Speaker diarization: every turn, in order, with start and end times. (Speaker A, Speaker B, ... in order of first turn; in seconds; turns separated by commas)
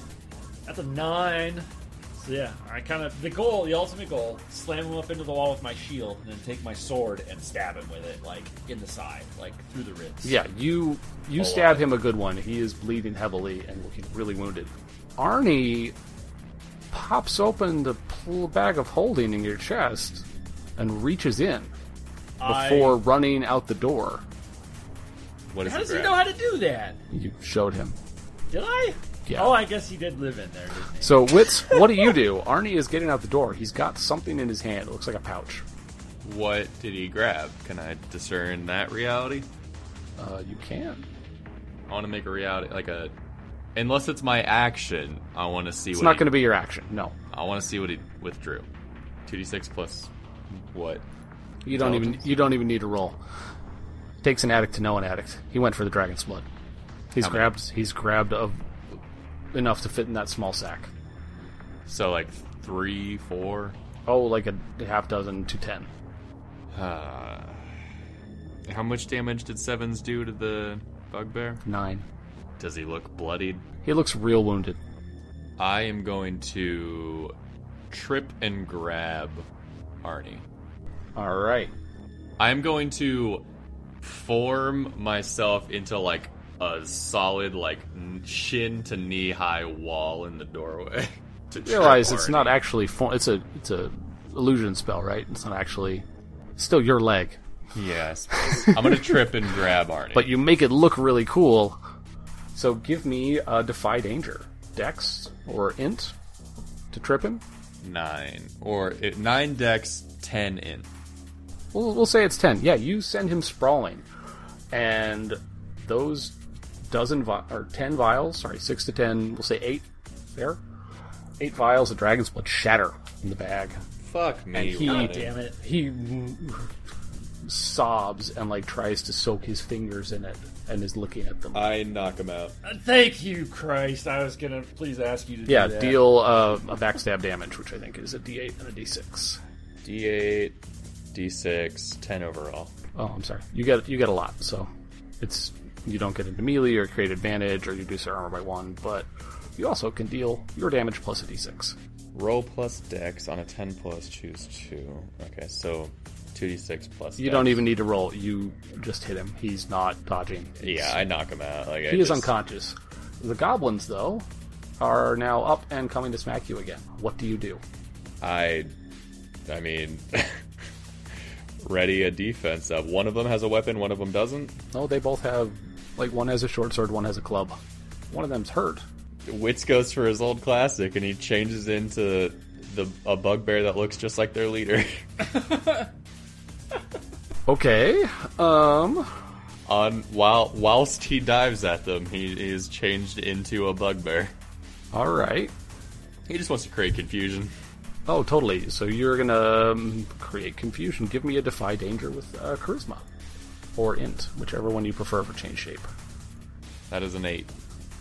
Speaker A: 0.7-10.4, Speaker B: 10.2-15.9, Speaker C: 11.3-11.9, Speaker B: 16.9-20.2, Speaker B: 20.8-21.7, Speaker A: 22.4-23.0, Speaker B: 22.4-24.2, Speaker C: 25.5-26.2, Speaker A: 25.6-27.0, Speaker B: 27.1-28.0, Speaker A: 28.5-32.0, Speaker B: 29.2-29.6, Speaker B: 31.0-35.6, Speaker C: 36.2-39.5, Speaker B: 40.2-41.0, Speaker C: 41.9-43.1, Speaker C: 43.7-46.3, Speaker B: 45.9-47.1, Speaker C: 47.3-48.7, Speaker C: 49.3-51.0, Speaker B: 51.6-53.2, Speaker C: 51.7-52.3, Speaker B: 54.2-56.5, Speaker B: 57.1-59.0, Speaker C: 57.2-57.5, Speaker B: 59.5-60.9, Speaker C: 61.9-63.8, Speaker B: 64.1-65.9, Speaker C: 66.7-67.7, Speaker C: 68.7-71.6, Speaker B: 71.6-72.0, Speaker C: 72.6-73.6, Speaker B: 73.8-74.8, Speaker C: 75.6-77.3, Speaker C: 77.9-79.5, Speaker C: 80.0-80.4, Speaker B: 81.2-81.7, Speaker C: 82.4-83.4, Speaker C: 84.0-92.6, Speaker B: 91.6-96.0, Speaker B: 96.6-97.4, Speaker C: 97.7-100.3, Speaker B: 98.3-99.3, Speaker B: 100.1-101.8, Speaker B: 102.5-106.1, Speaker B: 106.9-107.4, Speaker C: 107.8-110.9, Speaker B: 111.7-114.0, Speaker B: 114.7-116.3, Speaker B: 116.9-120.6, Speaker B: 121.4-123.8, Speaker C: 124.0-125.3, Speaker B: 124.5-126.7, Speaker A: 124.8-125.6, Speaker B: 127.4-131.7, Speaker C: 131.5-132.5, Speaker A: 132.6-136.2, Speaker B: 135.4-139.4, Speaker C: 139.8-140.6, Speaker C: 141.1-142.7, Speaker B: 142.9-144.7, Speaker B: 145.2-151.8, Speaker C: 152.1-157.6, Speaker B: 157.2-161.0, Speaker C: 160.6-162.3, Speaker B: 161.9-164.2, Speaker B: 164.8-167.6, Speaker C: 168.2-168.7, Speaker C: 169.5-170.4, Speaker C: 171.6-174.6, Speaker B: 174.7-177.6, Speaker B: 178.1-178.8, Speaker C: 179.3-185.1, Speaker A: 185.3-185.9, Speaker B: 187.5-189.1, Speaker C: 189.7-194.3, Speaker B: 194.9-195.5, Speaker C: 196.3-197.5, Speaker B: 198.1-203.1, Speaker B: 203.8-205.9, Speaker C: 206.9-207.5